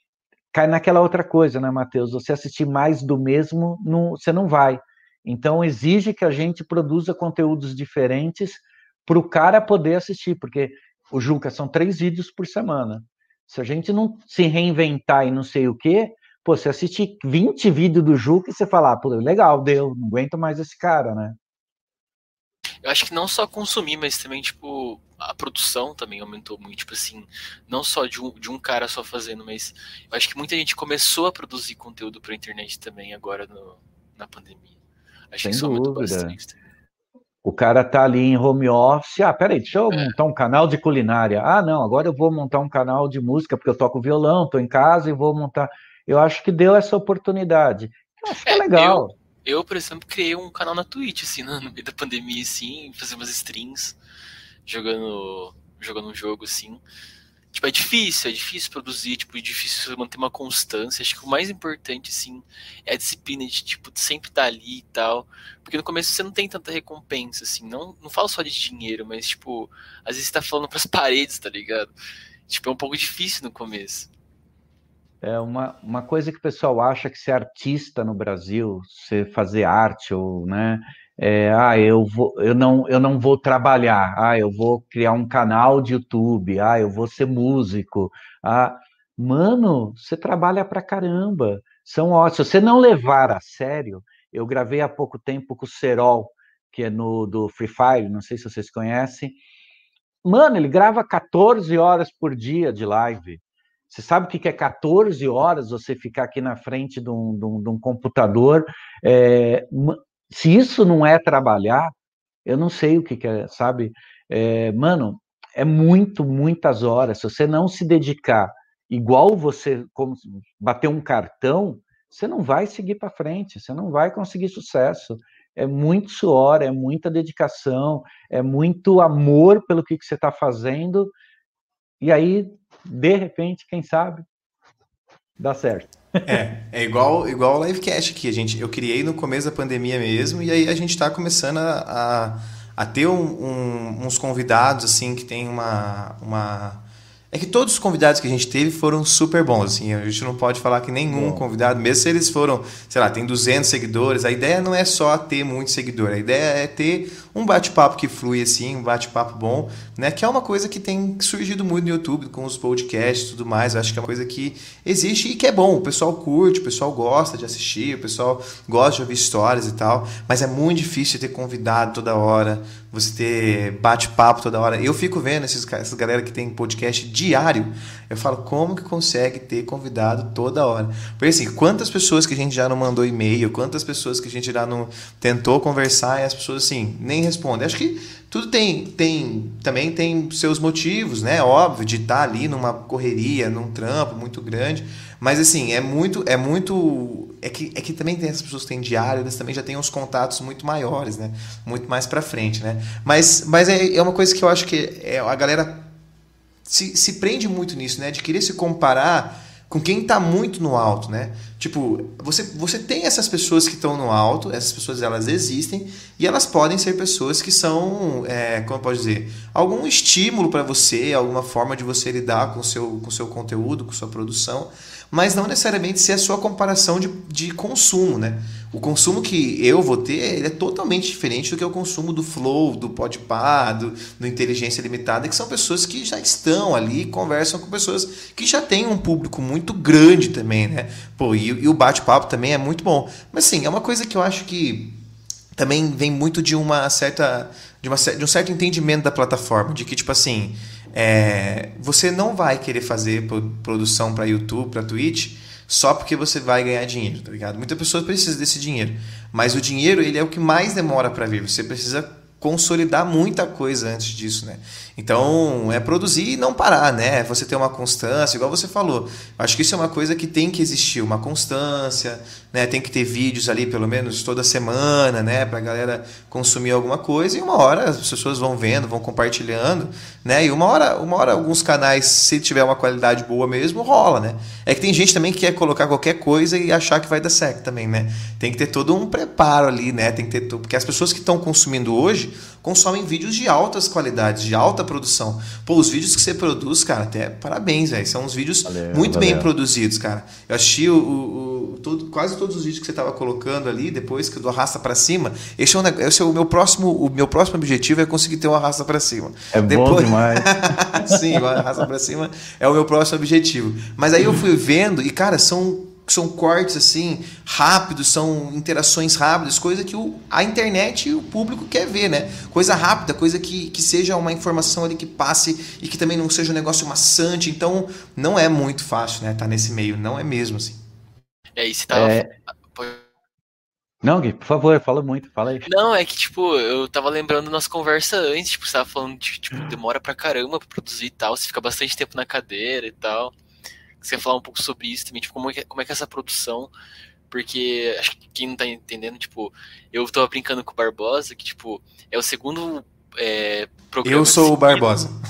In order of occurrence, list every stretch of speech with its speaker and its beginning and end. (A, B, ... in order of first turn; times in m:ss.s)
0:00.5-0:21.4 A
0:22.8-0:34.7 B
0:35.3-0:36.6 B
0:35.4-0:36.3 A
0:37.4-0:49.1 A
0:48.5-0:54.0 B
0:54.6-0:56.8 B
0:57.5-1:11.9 B
1:12.5-1:14.1 B
1:15.2-1:39.4 A
1:40.2-1:51.9 A
1:52.4-2:11.1 A
2:12.0-2:14.2 A
2:15.4-2:16.3 A
2:16.2-3:25.9 C
2:31.1-2:31.4 A
3:26.6-4:05.0 C
4:05.6-5:30.8 C
4:58.6-4:59.5 A
5:09.5-5:11.8 A
5:31.6-5:33.0 B
5:31.9-5:32.3 A
5:34.0-5:35.7 A
5:35.6-5:43.3 B
5:44.0-5:46.7 B
5:47.3-5:55.0 B
5:54.0-5:55.1 C